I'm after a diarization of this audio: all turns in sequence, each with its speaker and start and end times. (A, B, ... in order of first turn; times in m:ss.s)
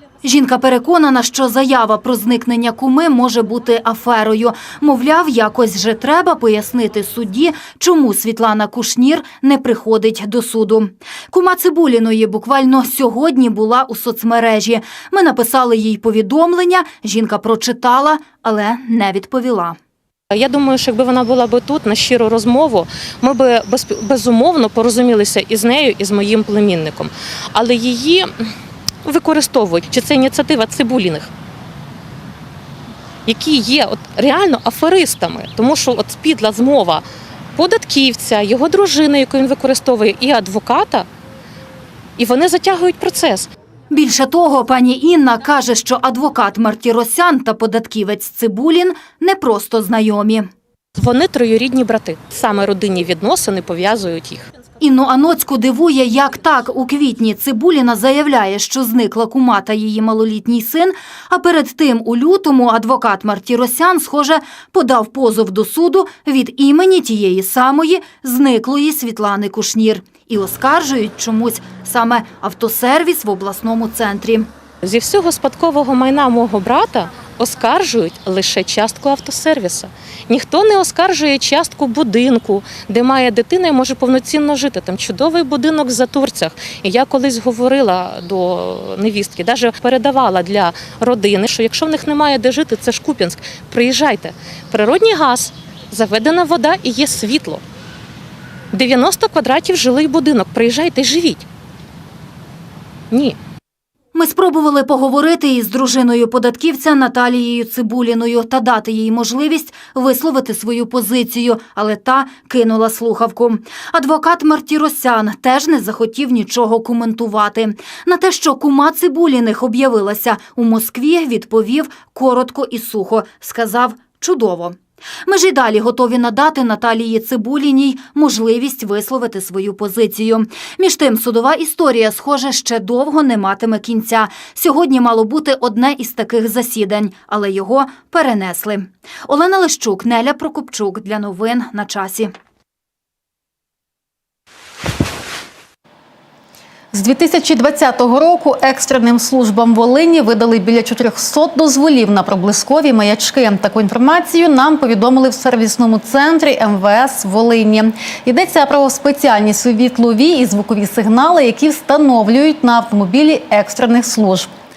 0:00.2-0:19.8 A
0:20.3-0:28.3 B
0:29.0-0:31.3 B
0:33.2-0:37.0 B
0:37.6-0:41.1 B
0:42.2-0:43.5 B
0:43.9-0:50.5 A
0:51.0-0:54.5 B
0:54.8-1:14.5 A
1:14.8-1:37.6 B
1:38.7-1:41.5 B
1:43.1-1:43.4 B
1:44.1-2:22.3 A
2:26.9-2:44.5 C